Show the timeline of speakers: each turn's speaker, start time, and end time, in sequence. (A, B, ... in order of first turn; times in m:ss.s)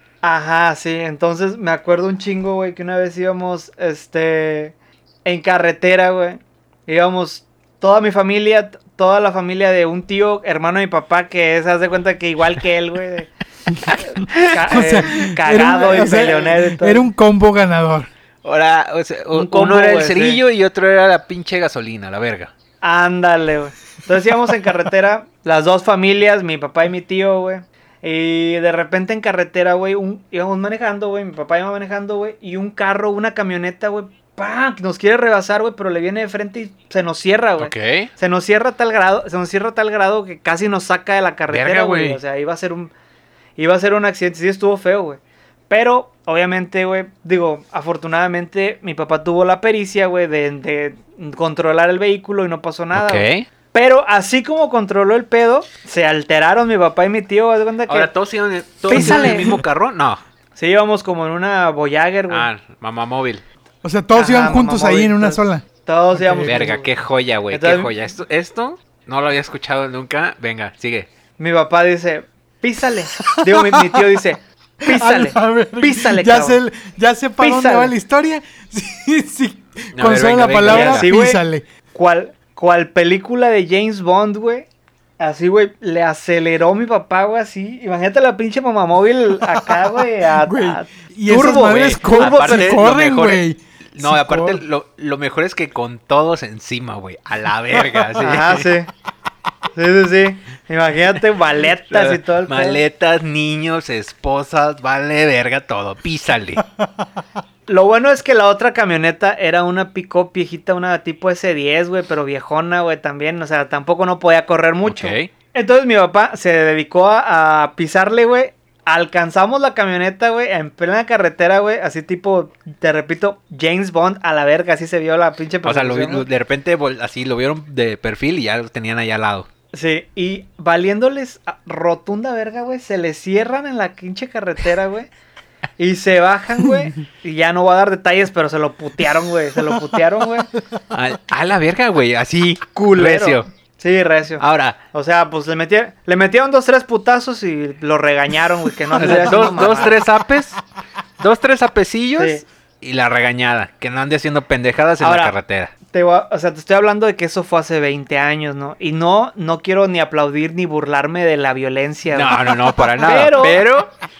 0:00.2-0:13.3 A
0:14.3-0:14.6 B
0:14.3-0:17.1 A
0:14.7-0:18.1 C
0:18.4-0:22.5 B
0:19.3-0:20.4 A
0:22.8-0:42.9 A
0:37.6-0:38.1 B
0:41.5-0:42.2 B
0:43.6-0:58.1 A
0:52.9-0:53.5 B
0:57.9-1:00.2 B
0:58.9-0:59.6 A
0:58.9-0:59.6 C
1:00.6-1:02.5 A
1:02.3-1:03.4 B
1:03.8-1:06.7 C
1:04.2-1:06.9 A
1:06.5-1:11.1 B
1:07.5-1:07.9 A
1:11.4-1:16.6 A
1:13.2-1:14.2 C
1:14.8-1:21.6 C
1:17.4-1:17.9 A
1:20.0-1:21.1 B
1:20.6-1:21.4 A
1:21.9-1:24.7 A
1:25.2-1:32.8 A
1:30.4-1:34.6 C
1:31.5-1:33.4 B
1:33.9-1:38.7 B
1:38.2-1:38.9 A
1:39.8-1:42.8 A
1:41.9-1:46.6 B
1:47.7-2:06.3 A
1:54.8-1:55.3 B
2:05.6-2:09.5 B
2:09.7-2:15.1 A
2:15.8-2:20.5 A
2:20.9-2:23.5 B
2:22.7-2:30.0 A
2:24.4-2:24.8 B
2:29.0-2:30.6 B
2:31.2-2:35.7 B
2:32.2-2:32.4 A
2:35.0-2:35.4 A
2:35.9-2:42.5 A
2:42.1-2:43.9 B
2:43.0-2:43.6 A